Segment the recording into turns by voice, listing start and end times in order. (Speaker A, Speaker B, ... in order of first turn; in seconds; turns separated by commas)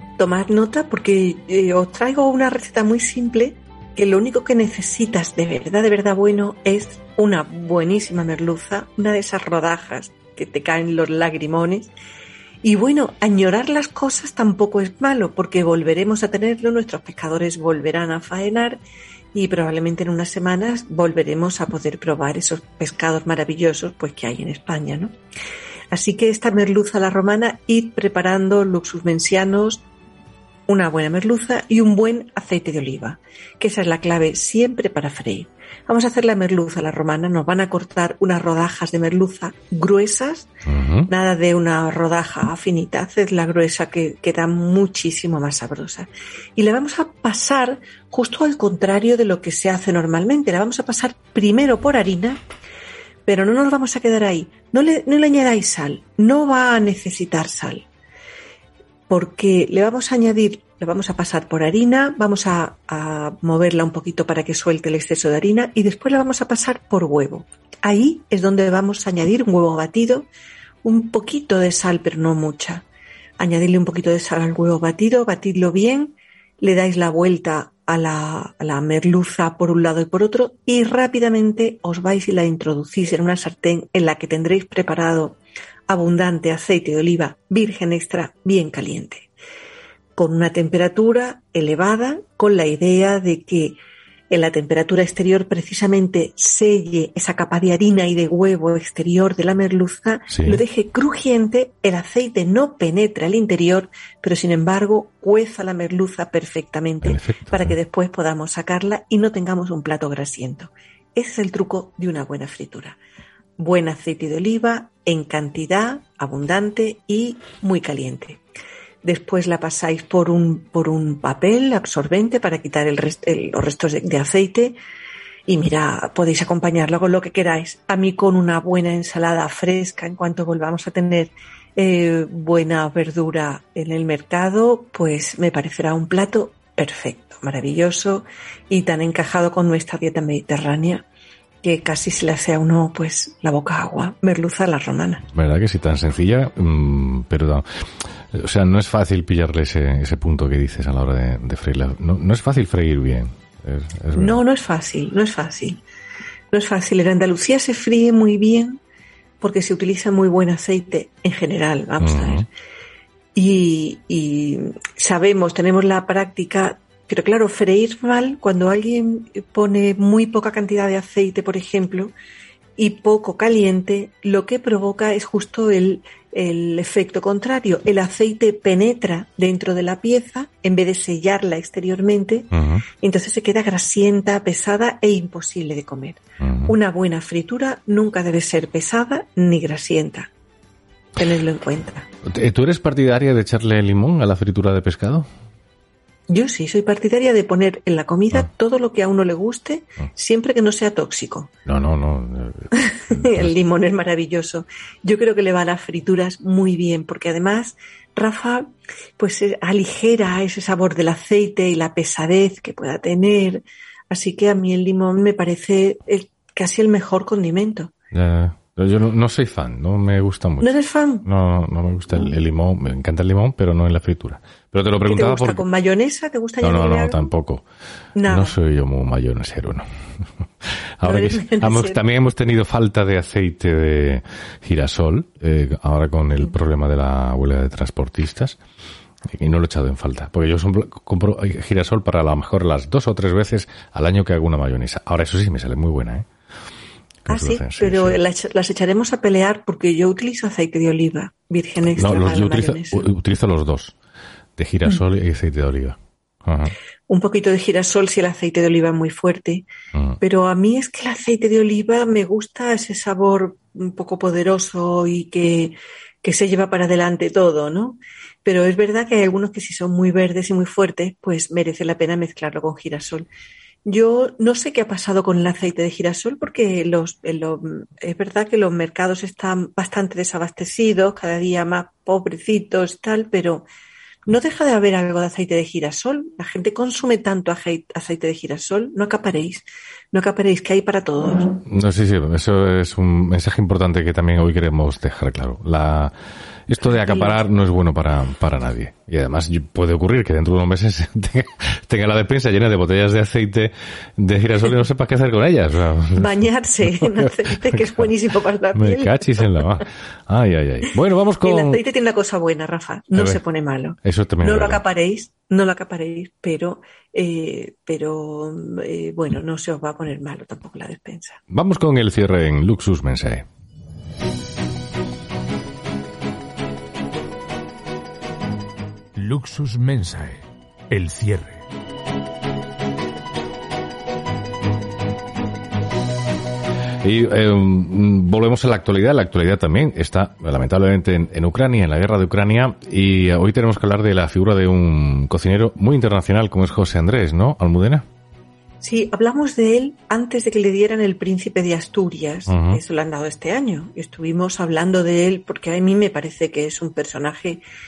Speaker A: 0.2-11.9, Speaker A: 12.6-18.8, Speaker A: 19.3-25.1, Speaker A: 25.9-29.8, Speaker A: 30.7-40.5, Speaker B: 40.6-41.1, Speaker A: 41.1-52.4, Speaker A: 53.2-57.9, Speaker A: 59.1-70.3, Speaker A: 70.8-72.8, Speaker A: 73.4-85.4, Speaker A: 85.9-89.3, Speaker A: 90.2-93.8, Speaker A: 94.3-113.0, Speaker B: 100.3-100.6, Speaker B: 107.0-107.7, Speaker A: 113.6-118.4, Speaker A: 119.0-124.8, Speaker A: 125.5-141.1, Speaker A: 141.6-145.2, Speaker B: 145.3-154.4, Speaker A: 154.1-155.8, Speaker A: 156.5-158.8, Speaker A: 159.4-162.5, Speaker B: 162.0-162.4, Speaker A: 163.3-172.1, Speaker A: 172.8-190.3, Speaker B: 182.5-182.8, Speaker B: 186.4-186.7, Speaker A: 191.2-192.1, Speaker B: 192.2-195.3, Speaker A: 196.3-201.5, Speaker B: 201.7-203.5, Speaker A: 202.7-217.9, Speaker B: 218.1-225.6, Speaker A: 220.6-221.3, Speaker A: 225.0-227.3, Speaker B: 226.6-227.6, Speaker A: 228.1-228.6, Speaker B: 228.3-238.6, Speaker A: 231.0-232.0, Speaker B: 239.3-246.3, Speaker B: 247.3-248.2, Speaker A: 247.3-253.1, Speaker B: 251.9-253.9, Speaker B: 254.6-256.7, Speaker A: 257.1-259.7, Speaker A: 260.2-273.3, Speaker A: 273.8-283.6, Speaker A: 284.3-291.6, Speaker B: 291.6-296.1, Speaker B: 296.7-306.3, Speaker A: 296.8-297.4, Speaker A: 306.1-309.8, Speaker B: 306.9-308.1, Speaker B: 308.7-311.8, Speaker A: 311.4-321.4, Speaker B: 313.1-313.4, Speaker B: 314.0-314.8, Speaker B: 321.5-323.4, Speaker C: 329.1-331.6, Speaker B: 337.0-348.0, Speaker A: 348.8-357.6, Speaker B: 352.5-352.8